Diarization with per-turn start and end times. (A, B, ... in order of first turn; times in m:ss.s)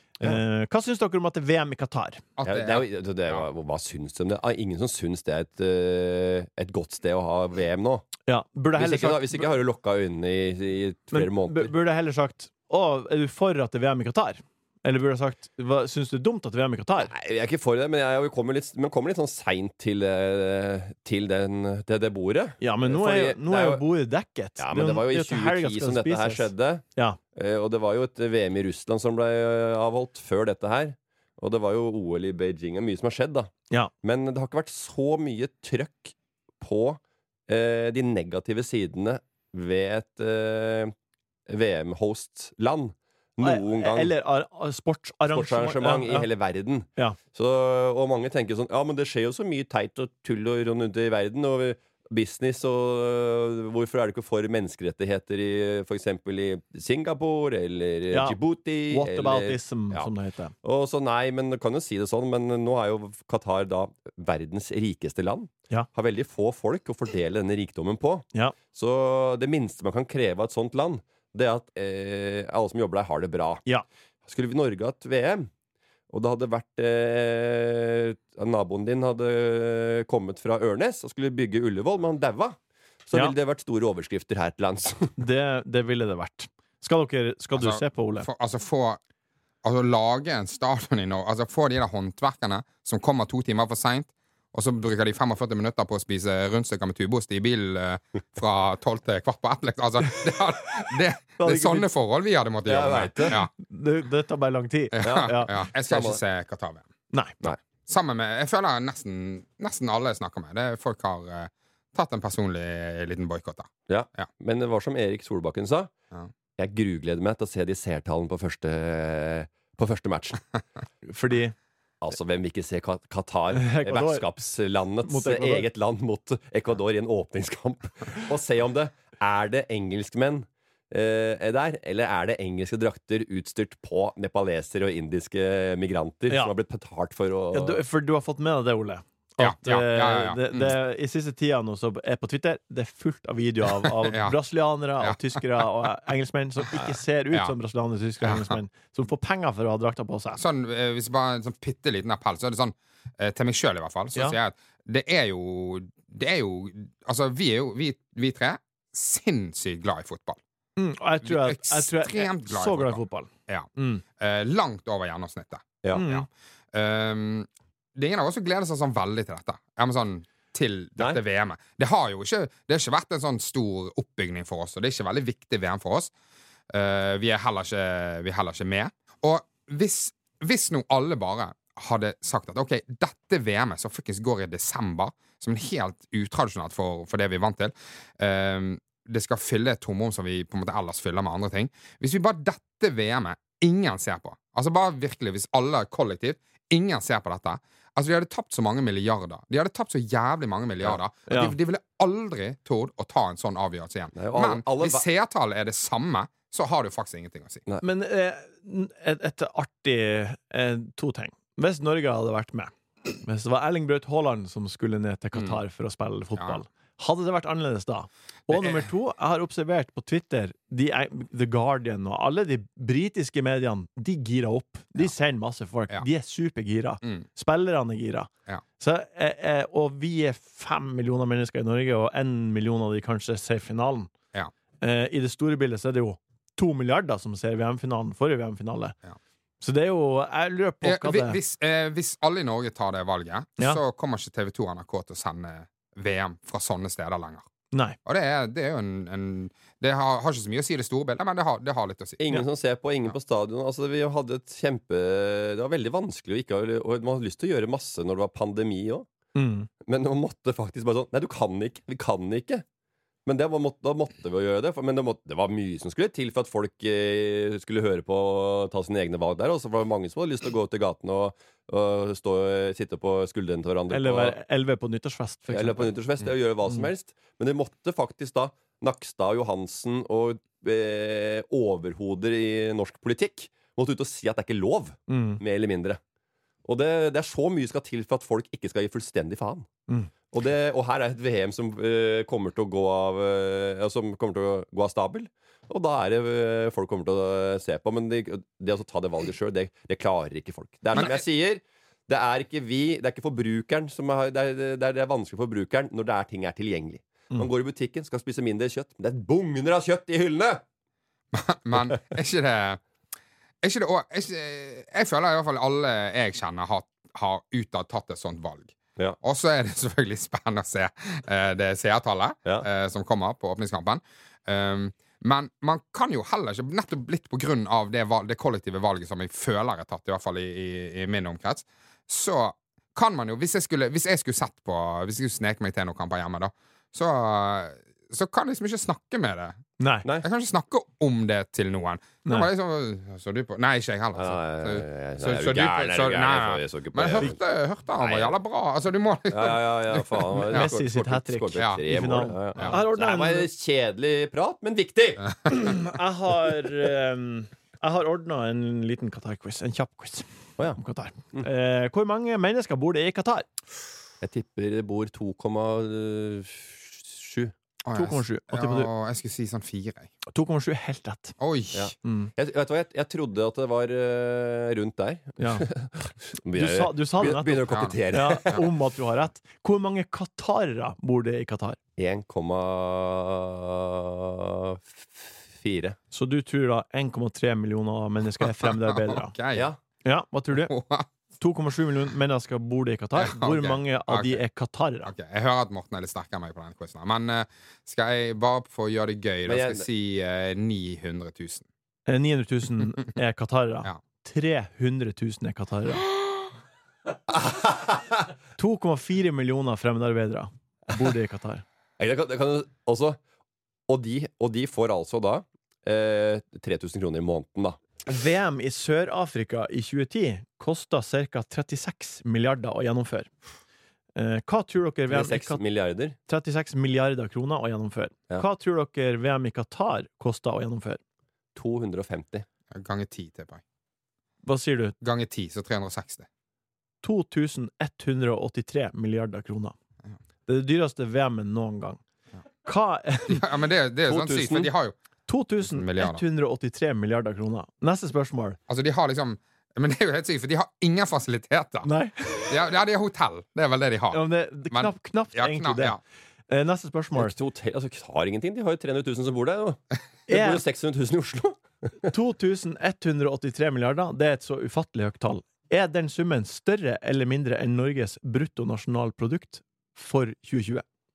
0:00.2-0:02.2 A
0:02.4-0:03.4 B
0:02.4-0:08.1 C
0:08.3-0:09.4 A
0:08.8-0:11.7 C
0:11.1-0:17.1 A
0:17.1-0:23.8 C
0:22.6-0:27.2 A
0:24.6-0:33.5 C
0:34.0-0:40.9 C
0:41.5-0:44.1 C
0:43.4-0:46.3 A
0:45.3-1:00.1 C
0:58.1-0:58.4 A
0:58.9-1:00.5 A
1:00.6-1:13.6 C
1:14.3-1:15.5 C
1:16.1-1:22.6 C
1:23.1-1:25.1 C
1:25.2-1:28.3 A
1:27.5-1:29.0 B
1:29.6-1:43.5 B
1:41.4-1:41.9 A
1:42.6-1:43.4 C
1:43.6-1:45.5 A
1:45.0-1:46.9 B
1:45.0-1:46.2 C
1:47.1-1:47.4 A
1:47.8-1:54.3 B
1:53.9-1:55.9 C
1:56.6-2:00.4 C
2:01.0-2:01.6 A
2:02.0-2:17.8 C
2:03.5-2:04.2 A
2:05.0-2:05.6 A
2:17.5-2:30.4 A
2:19.4-2:20.7 B
2:23.8-2:24.4 B
2:28.2-2:28.6 B
2:30.4-2:40.4 B
2:40.8-2:44.0 A
2:41.2-2:56.1 B
2:45.9-2:46.2 A
2:56.7-3:27.6 B
3:21.3-3:21.5 A
3:24.1-3:25.0 C
3:27.8-3:32.7 A
3:33.2-3:54.1 A
3:35.4-3:35.6 B
3:36.4-3:36.6 B
3:38.5-3:38.8 B
3:54.8-3:58.9 A
3:59.6-4:01.4 A
4:00.8-4:07.4 B
4:07.7-4:08.0 A
4:08.0-4:12.2 B
4:12.2-4:19.1 C
4:19.4-4:19.7 A
4:19.8-4:22.6 C
4:23.2-4:34.4 C
4:33.9-4:35.9 A
4:35.5-4:46.0 C
4:45.1-4:45.4 A
4:46.6-4:49.7 C
4:50.3-5:10.6 C
5:00.9-5:01.2 B
5:11.3-5:12.8 B
5:13.6-5:39.6 B
5:39.8-5:40.0 A
5:40.2-5:50.7 B
5:42.2-5:42.5 A
5:44.1-5:47.4 C
5:48.0-5:48.4 C
5:49.3-5:55.3 C
5:50.5-5:53.5 A
5:51.6-5:51.8 B
5:55.5-6:03.5 A
6:04.2-6:07.5 C
6:07.8-6:10.1 B
6:07.9-6:08.9 A
6:10.3-6:11.4 A
6:11.4-6:11.9 B
6:11.7-6:18.6 C
6:12.0-6:12.3 A
6:15.4-6:15.7 A
6:16.5-6:21.8 A
6:17.7-6:18.0 B
6:22.0-6:26.0 C
6:26.1-6:29.3 A
6:28.4-6:29.7 B
6:30.0-6:30.7 A
6:30.5-6:31.1 B
6:31.4-6:35.1 A
6:33.2-6:34.4 B
6:35.0-6:41.6 B
6:39.4-6:39.9 C
6:42.1-6:46.0 A
6:47.3-6:48.0 C
6:48.6-6:51.6 A
6:52.0-6:53.2 C
6:53.9-6:57.8 C
6:58.0-7:03.3 A
7:04.2-7:05.6 A
7:05.1-7:06.2 C
7:06.3-7:11.0 A
7:11.6-7:12.4 C
7:12.7-7:13.6 B
7:14.4-7:14.9 A
7:15.0-7:16.3 B
7:17.0-7:19.7 A
7:20.5-7:22.0 A
7:22.6-7:23.4 A
7:23.3-7:25.0 B
7:24.1-7:24.7 C
7:25.3-7:28.6 A
7:25.6-7:26.2 B
7:28.7-7:31.9 B
7:31.8-7:32.5 A
7:32.4-7:36.0 B
7:34.1-7:36.0 A
7:36.5-7:37.3 A
7:37.2-7:42.1 C
7:40.3-7:40.6 A
7:42.1-7:50.8 A